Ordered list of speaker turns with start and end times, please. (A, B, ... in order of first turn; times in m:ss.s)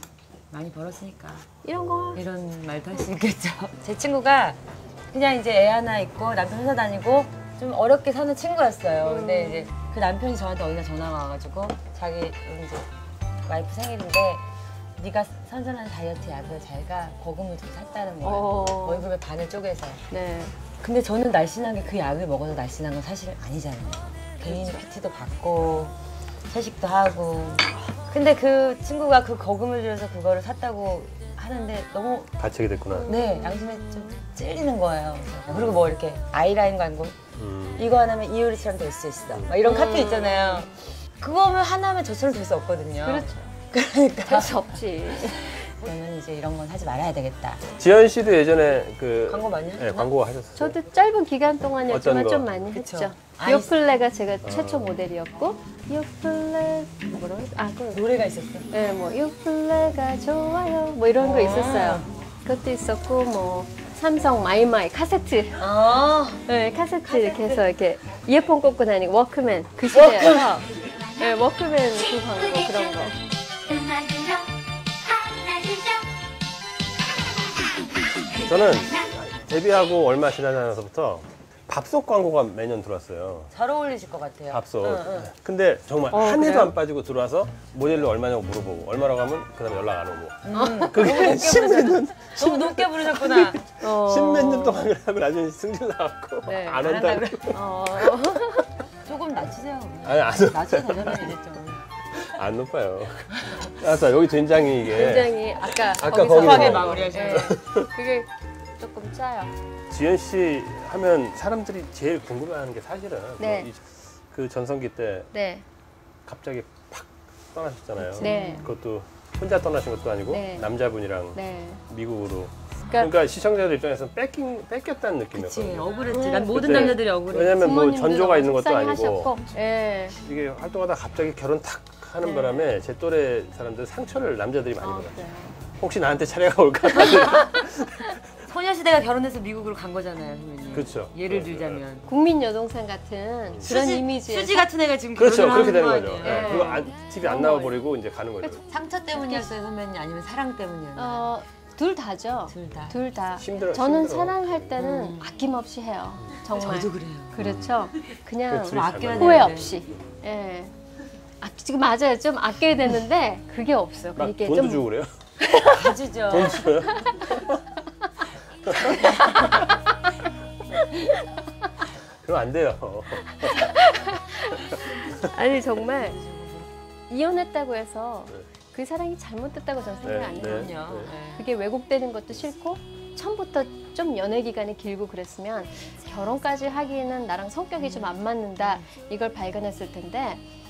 0:00.5-0:01.5 A
0:01.6-0:02.2 B
0:01.7-0:02.2 C
0:02.1-0:04.6 A
0:05.1-0:12.9 A
0:09.0-0:09.7 B
0:13.4-0:14.4 A
0:15.0-0:20.0 A
0:18.2-0:19.1 B
0:20.1-0:20.6 B
0:20.8-0:26.0 A
0:24.4-0:24.8 B
0:26.5-0:32.3 A
0:32.4-0:33.2 C
0:33.0-0:37.2 A
0:35.5-0:35.9 C
0:37.4-0:37.9 C
0:37.8-0:47.6 A
0:39.6-0:40.7 B
0:43.0-0:43.5 B
0:44.2-0:45.6 B
0:47.7-0:50.8 C
0:49.3-0:50.1 A
0:50.6-0:58.0 B
0:51.8-0:52.5 C
0:52.7-0:53.8 A
0:54.4-0:54.9 C
0:57.9-0:58.7 A
0:58.7-1:05.7 B
1:01.2-1:02.1 A
1:05.6-1:06.4 A
1:06.4-1:13.1 B
1:07.2-1:07.6 A
1:09.9-1:10.6 A
1:18.4-1:23.5 C
1:23.5-1:25.3 A
1:24.5-1:38.1 C
1:26.1-1:26.7 B
1:30.4-1:33.6 A
1:30.5-1:31.0 B
1:33.8-1:34.9 B
1:36.4-1:36.8 B
1:36.8-1:37.5 A
1:37.5-1:38.7 B
1:39.0-1:41.8 A
1:40.0-1:41.3 C
1:42.2-1:47.9 C
1:43.4-1:43.7 A
1:44.9-1:49.5 B
1:44.9-1:47.6 A
1:49.9-1:55.3 C
1:53.4-1:53.7 B
1:55.3-1:55.6 B
1:56.2-2:09.3 C
1:58.0-1:58.7 A
1:58.2-1:58.7 B
2:00.3-2:00.7 B
2:01.3-2:01.8 B
2:02.8-2:03.1 B
2:05.3-2:07.6 A
2:06.1-2:10.2 B
2:10.2-2:18.4 C
2:12.2-2:12.6 B
2:14.8-2:15.6 B
2:17.0-2:17.3 A
2:18.4-2:22.0 A
2:20.7-2:21.8 C
2:22.0-2:24.7 B
2:23.6-2:26.8 A
2:25.1-2:28.6 C
2:26.2-2:27.8 B
2:28.4-2:29.5 B
2:28.7-2:31.3 A
2:31.0-2:40.7 B
2:32.5-2:33.0 A
2:33.4-2:34.8 C
2:34.8-2:35.3 A
2:36.5-2:37.4 A
2:37.4-2:37.8 C
2:38.5-2:40.1 C
2:38.7-2:39.7 A
2:41.4-2:44.9 B
2:44.2-2:47.6 C
2:45.5-2:45.8 B
2:45.6-2:46.6 A
2:48.6-2:49.7 C
2:49.0-2:49.6 B
2:52.2-2:53.8 C
2:53.3-2:56.2 B
2:54.6-2:55.2 C
2:55.6-2:56.7 A
2:57.1-3:00.8 B
3:00.0-3:01.1 C
3:00.4-3:01.4 A
3:01.3-3:10.4 B
3:07.8-3:08.8 A